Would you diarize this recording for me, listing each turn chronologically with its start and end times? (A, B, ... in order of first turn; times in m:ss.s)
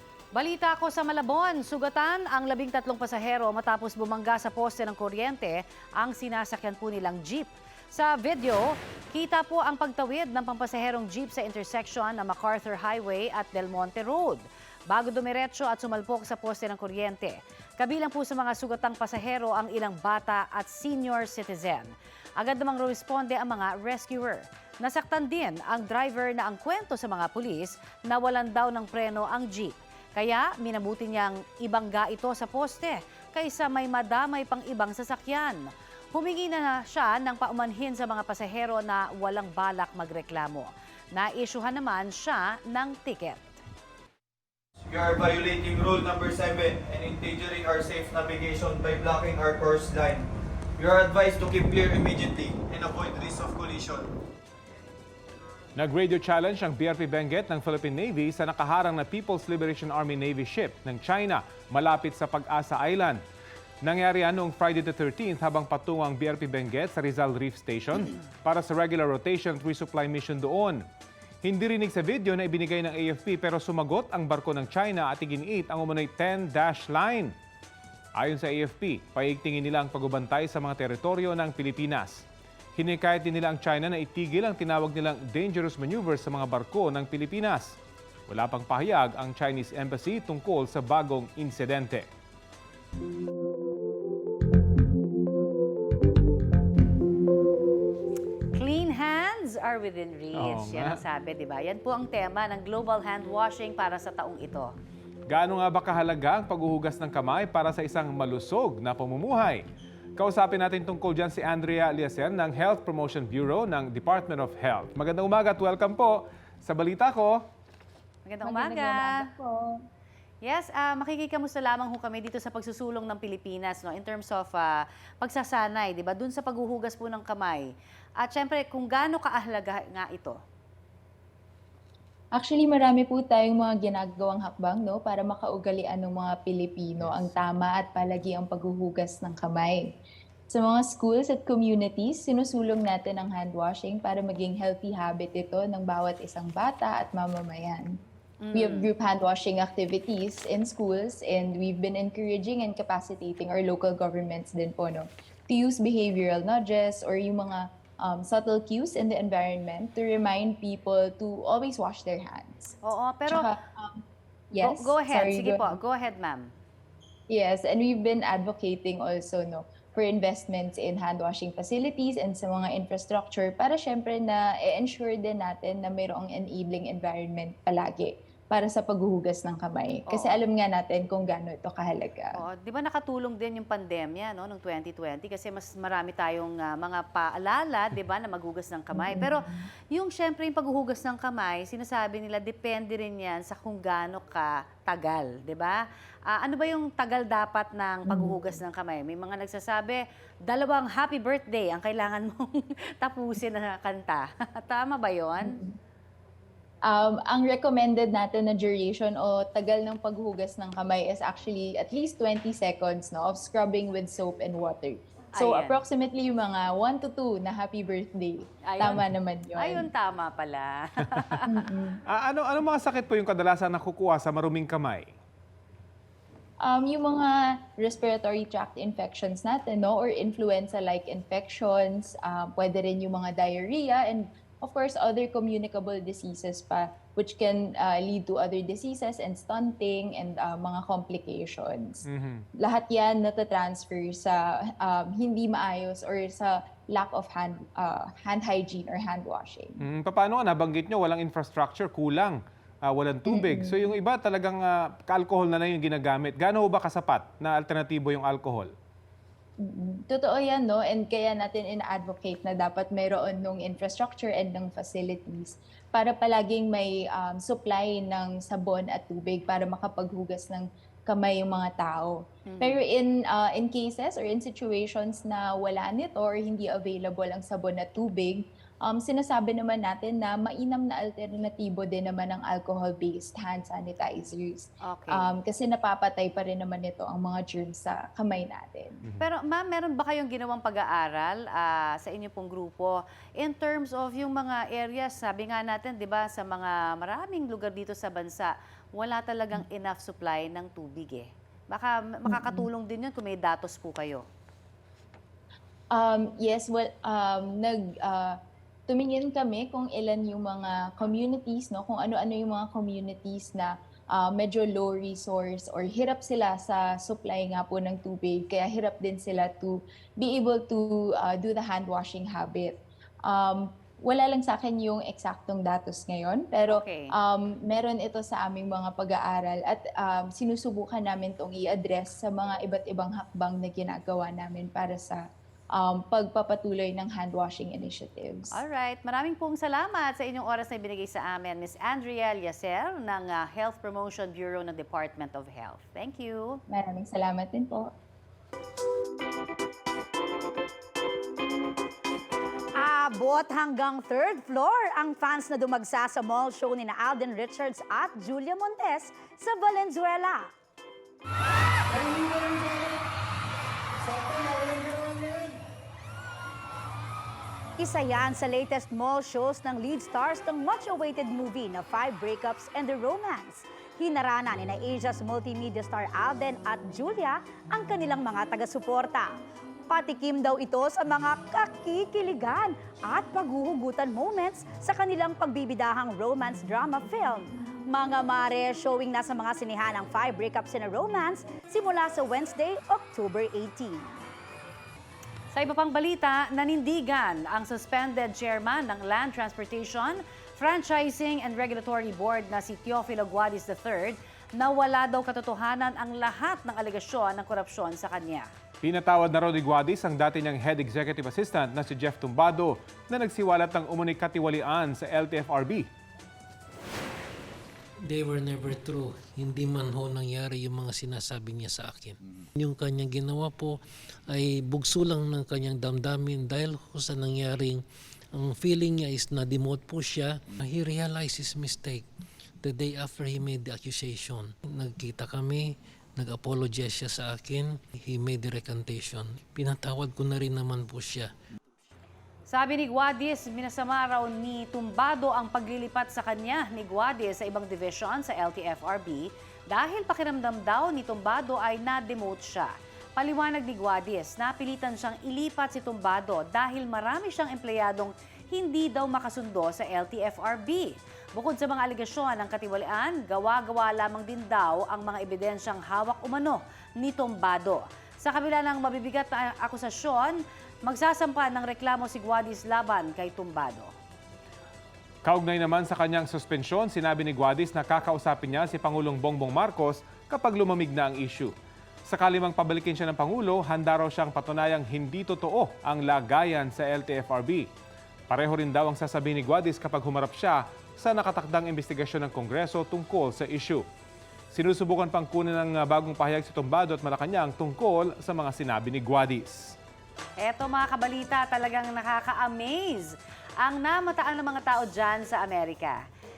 0:00.4-0:35.6 A
0:36.1-0:43.6 A
0:44.9-0:50.2 B
0:50.8-0:54.1 B
0:55.8-1:03.2 C
1:03.8-1:10.8 C
1:11.4-1:17.3 C
1:18.2-1:22.2 C
1:22.8-1:27.8 C
1:28.3-1:32.1 C
1:38.5-1:44.7 A
1:40.4-1:41.0 C
1:45.3-1:49.7 C
1:50.2-1:57.4 C
1:58.3-1:59.2 A
1:58.4-1:59.8 D
2:00.4-2:07.7 A
2:08.2-2:10.4 A
2:12.4-2:19.9 D
2:20.5-2:28.0 D
2:28.4-2:28.9 A
2:28.5-2:42.8 D
2:42.8-2:43.5 A
2:43.3-2:45.8 D
2:44.6-2:46.5 A
2:47.3-3:02.4 D
3:00.1-3:00.4 A
3:02.4-3:25.6 A
3:09.0-3:09.7 D
3:18.1-3:18.5 D
3:25.4-3:25.8 D
3:26.9-3:39.9 D
3:35.4-3:35.8 A
3:38.7-3:39.0 A
3:39.6-3:41.5 A
3:41.5-3:42.0 D
3:42.1-3:45.1 C
3:46.6-4:02.0 D
4:02.1-4:02.5 C
4:02.6-4:09.8 D
4:09.8-4:18.7 C
4:13.3-4:13.9 D
4:19.6-4:49.0 D
4:32.5-4:32.8 A
4:44.8-4:45.3 A
4:49.2-5:04.3 A
5:02.3-5:02.7 D
5:05.9-5:35.2 D
5:26.7-5:27.1 A
5:35.8-5:38.6 D
5:38.5-5:46.6 A
5:46.7-5:47.9 D
5:52.8-6:00.5 E
6:02.0-6:02.8 D
6:04.1-6:05.4 D
6:07.8-6:19.3 E
6:19.9-6:34.1 E
6:35.5-6:48.5 A
6:48.8-6:55.9 C
6:58.0-7:12.1 F
7:12.6-7:21.3 F
7:22.5-7:53.9 A
7:55.2-8:01.5 C
8:02.1-8:07.7 C
8:08.3-8:13.8 C
8:14.5-8:19.8 C
8:20.4-8:26.0 A